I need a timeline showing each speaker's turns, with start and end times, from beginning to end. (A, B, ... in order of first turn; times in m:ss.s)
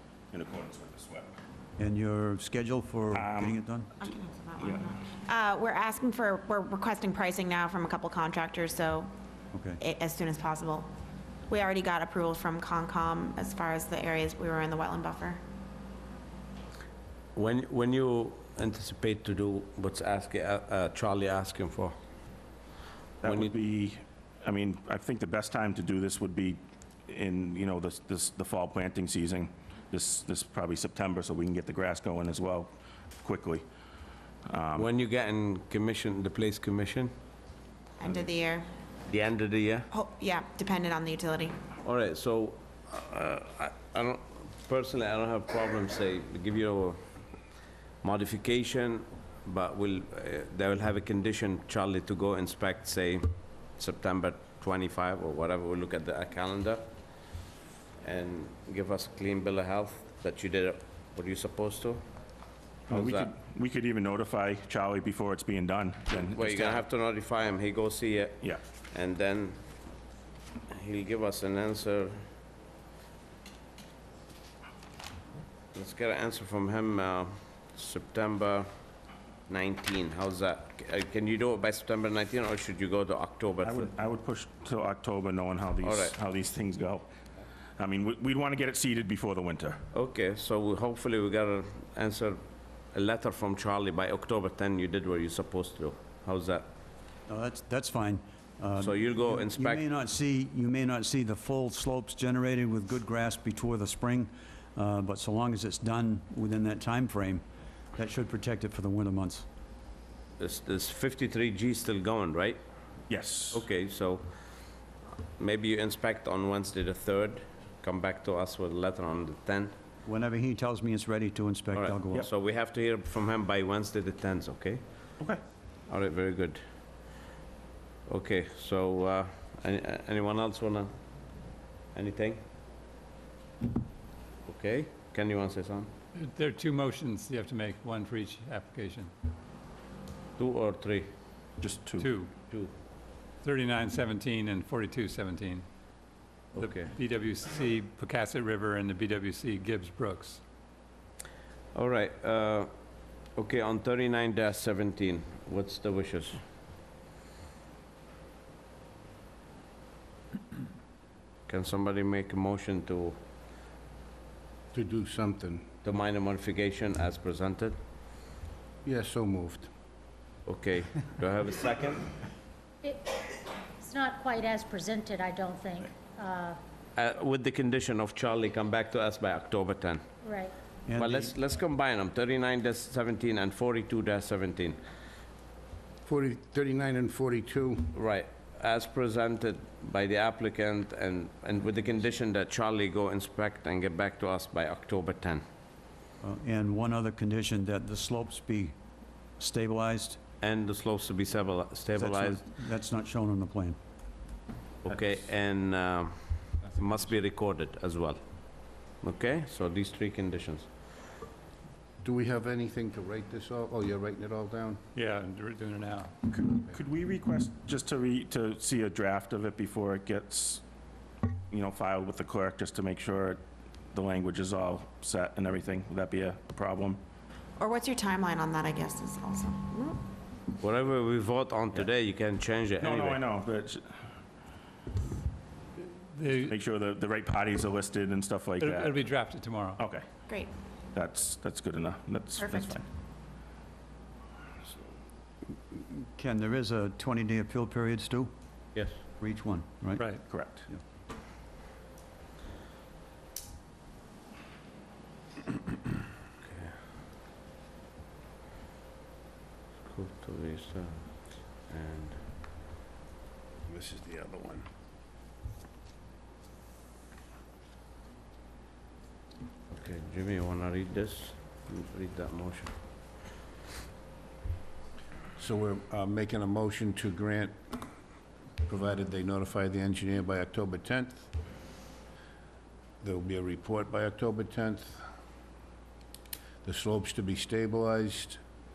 0:00.3-0:01.4 A
0:01.8-0:03.9 B
0:03.1-0:03.6 A
0:04.0-0:09.1 C
0:09.5-0:09.8 B
0:09.8-0:10.9 C
0:11.5-0:15.4 C
0:17.4-0:21.9 D
0:23.2-0:32.7 A
0:23.2-0:23.5 D
0:33.2-0:33.6 A
0:34.5-0:34.9 A
0:34.8-0:37.1 D
0:38.0-0:38.7 C
0:39.1-0:39.9 D
0:39.9-0:41.6 C
0:41.8-0:47.0 D
0:48.0-0:53.2 D
0:53.8-0:57.2 D
0:58.0-1:02.1 D
1:02.9-1:06.8 A
1:02.9-1:03.3 D
1:06.2-1:09.6 D
1:10.7-1:12.2 D
1:15.7-1:18.7 D
1:19.5-1:23.9 D
1:23.6-1:27.1 A
1:25.8-1:26.2 D
1:27.8-1:29.8 A
1:29.9-1:36.7 D
1:37.3-1:49.5 B
1:38.8-1:39.8 D
1:50.4-1:52.6 D
1:53.1-1:53.6 A
1:53.5-1:54.8 D
1:55.4-1:59.8 D
2:00.1-2:02.2 B
2:01.8-2:04.8 D
2:05.9-2:06.6 D
2:08.1-2:10.9 D
2:11.9-2:12.4 D
2:14.5-2:15.9 D
2:16.2-2:19.1 E
2:20.4-2:21.1 D
2:21.6-2:22.1 A
2:22.0-2:22.3 E
2:23.4-2:25.6 E
2:26.5-2:30.4 E
2:26.6-2:26.9 D
2:31.8-2:32.7 D
2:33.3-2:36.4 D
2:41.5-2:43.2 D
2:44.7-2:45.6 F
2:45.8-2:47.8 D
2:48.9-2:49.7 F
2:50.5-2:52.1 D
2:52.8-2:56.6 G
2:57.0-3:00.1 D
3:00.2-3:00.6 G
3:00.9-3:01.3 B
3:00.9-3:04.8 D
3:06.1-3:07.8 F
3:07.9-3:15.4 D
3:16.2-3:18.8 B
3:19.4-3:20.2 B
3:20.4-3:22.4 D
3:22.0-3:23.8 B
3:24.8-3:30.7 D
3:32.0-3:34.8 F
3:34.9-3:36.1 E
3:36.3-3:40.6 A
3:41.5-3:43.4 A
3:43.9-3:47.0 A
3:47.6-3:50.0 C
3:50.6-3:53.2 D
3:52.8-3:54.0 A
3:56.1-3:56.5 E
3:56.4-3:59.1 A
3:58.6-3:59.8 E
3:59.8-4:00.1 A
4:00.9-4:02.9 A
4:05.7-4:08.3 B
4:09.2-4:10.8 B
4:10.3-4:10.7 A
4:16.4-4:16.7 D
4:19.8-4:22.2 D
4:23.7-4:24.7 F
4:29.8-4:32.7 D
4:35.4-4:37.8 F
4:38.7-4:41.3 F
4:43.0-4:45.0 F
4:46.6-4:48.4 F